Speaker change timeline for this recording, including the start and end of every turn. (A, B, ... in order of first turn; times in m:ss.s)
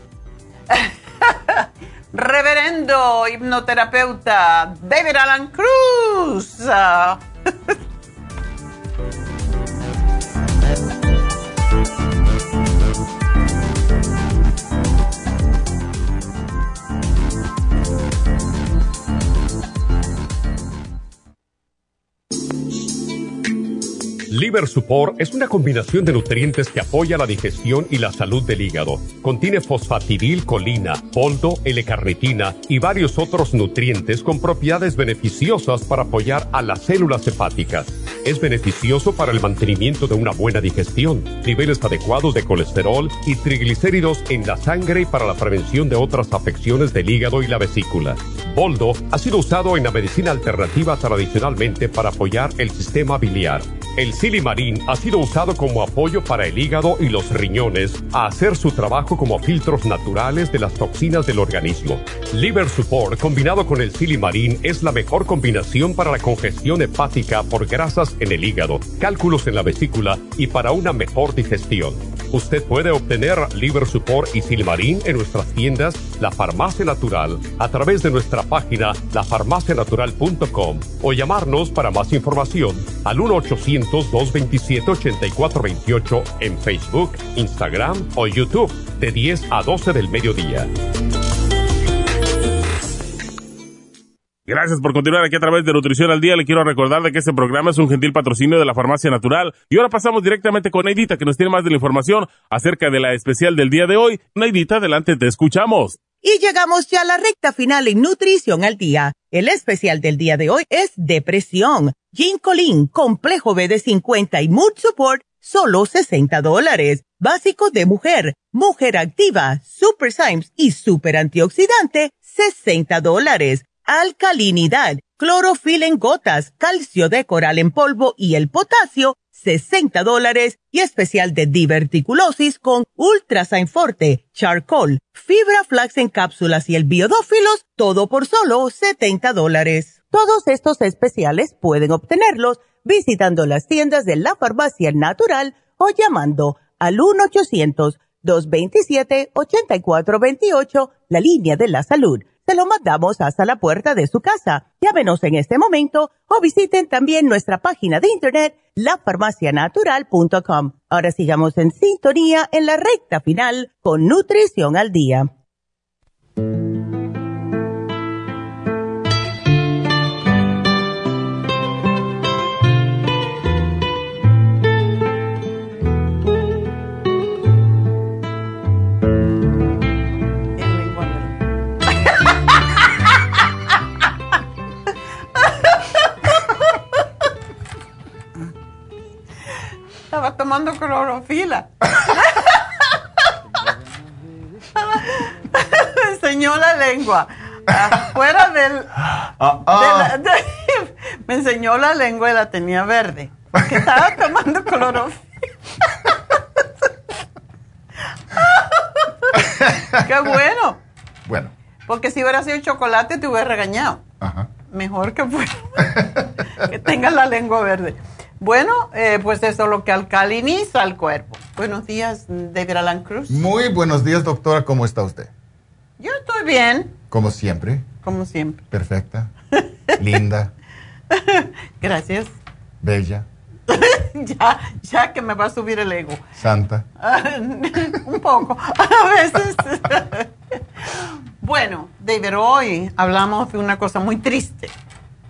0:00.7-0:07.7 A
0:24.3-1:30.7 B
1:34.5-1:46.0 C
1:46.2-2:45.3 D
3:00.6-3:03.4 A
3:05.3-3:07.0 A
3:10.1-3:13.3 A
3:14.7-3:18.9 A
3:19.4-3:20.1 E
3:19.6-3:26.6 A
3:28.3-3:30.8 A
3:31.2-3:31.5 E
3:31.8-3:34.0 A
3:34.2-3:34.5 E
3:34.7-3:36.0 A
3:36.6-3:43.5 A
3:43.3-3:45.3 E
3:46.0-3:47.0 A
3:47.1-3:47.9 E
3:48.0-3:48.6 A
3:48.7-3:49.3 E
3:50.0-3:50.5 E
3:51.1-3:52.4 A
3:52.8-3:53.2 E
3:53.7-3:56.2 A
3:56.4-3:56.8 E
3:57.0-4:04.7 A